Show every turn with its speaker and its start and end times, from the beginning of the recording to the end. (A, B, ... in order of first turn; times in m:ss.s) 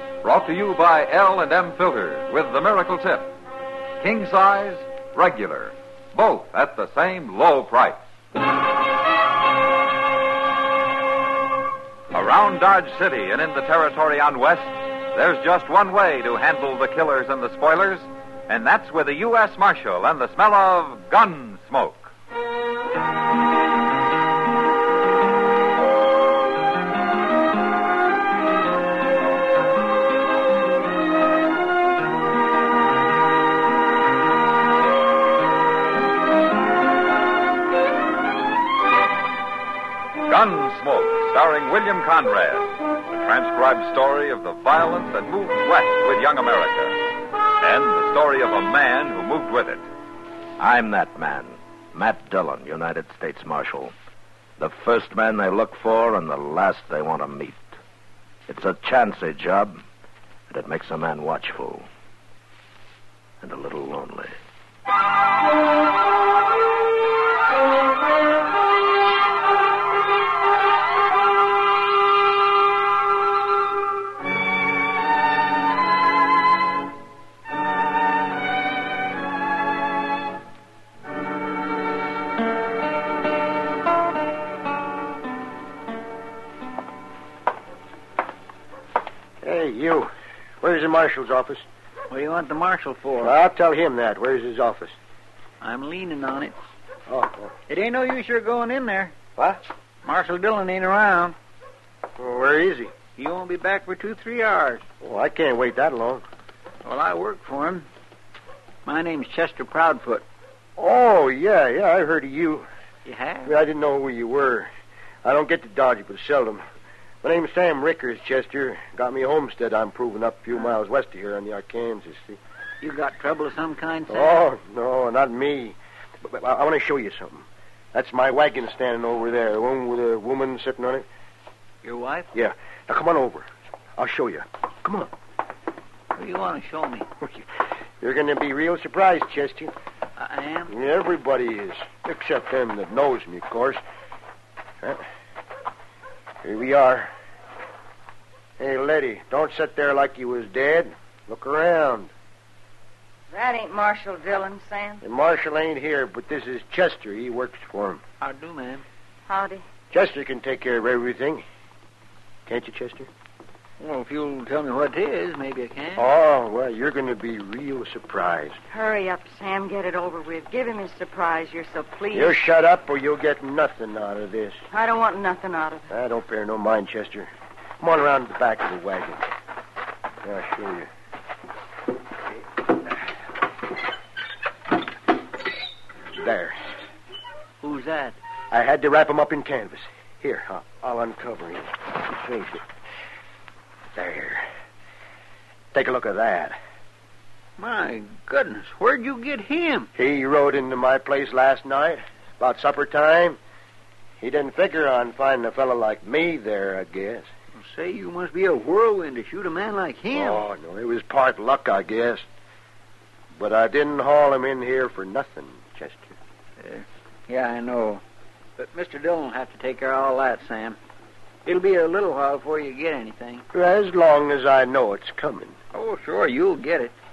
0:00.2-0:03.3 A
0:04.0-0:08.0 A
0:12.1-0:22.1 A
0:40.2-0:47.0 A
0:47.6-0:49.8 A
0:50.6-0:53.9 B
0:54.6-0:57.7 B
0:58.5-0:59.8 B
1:00.5-1:01.9 B
1:03.4-1:04.3 B
1:29.4-1:31.6 C
1:32.1-1:33.3 D
1:33.2-1:35.0 C
1:35.6-1:36.6 D
1:37.1-1:37.5 C
1:37.7-1:39.2 D
1:40.0-1:41.4 D
1:42.2-1:42.9 C
1:43.2-1:44.8 D
1:45.0-1:46.2 C
1:46.8-1:47.9 D
1:48.8-1:50.2 D
1:50.8-1:52.7 C
1:53.0-1:53.6 D
1:53.4-1:54.7 C
1:55.2-1:56.6 C
1:57.2-2:02.4 C
2:02.8-2:04.4 D
2:04.1-2:11.0 C
2:11.8-2:12.3 D
2:12.3-2:13.4 C
2:14.0-2:15.1 C
2:16.2-2:17.1 D
2:18.0-2:19.7 C
2:20.2-2:20.7 D
2:20.7-2:23.8 C
2:26.4-2:27.1 C
2:28.6-2:32.1 C
2:33.3-2:35.0 E
2:35.0-2:38.0 C
2:38.2-2:38.8 D
2:39.3-2:39.6 E
2:39.9-2:41.4 C
2:42.4-2:43.1 C
2:43.8-2:46.0 D
2:46.0-2:48.6 C
2:48.7-2:52.4 E
2:52.1-2:54.6 C
2:54.7-2:55.9 E
2:55.9-2:59.2 C
3:00.2-3:00.9 C
3:06.2-3:06.6 C
3:07.6-3:08.2 D
3:08.5-3:12.6 C
3:13.9-3:14.4 C
3:15.7-3:16.6 C
3:17.6-3:19.9 D
3:19.9-3:23.4 C
3:24.2-3:27.3 C
3:27.6-3:30.4 D
3:30.1-3:32.2 C
3:33.4-3:36.1 C
3:36.6-3:38.0 D
3:38.6-3:40.8 D
3:41.4-3:43.4 D
3:43.5-3:45.6 C
3:45.7-3:46.9 D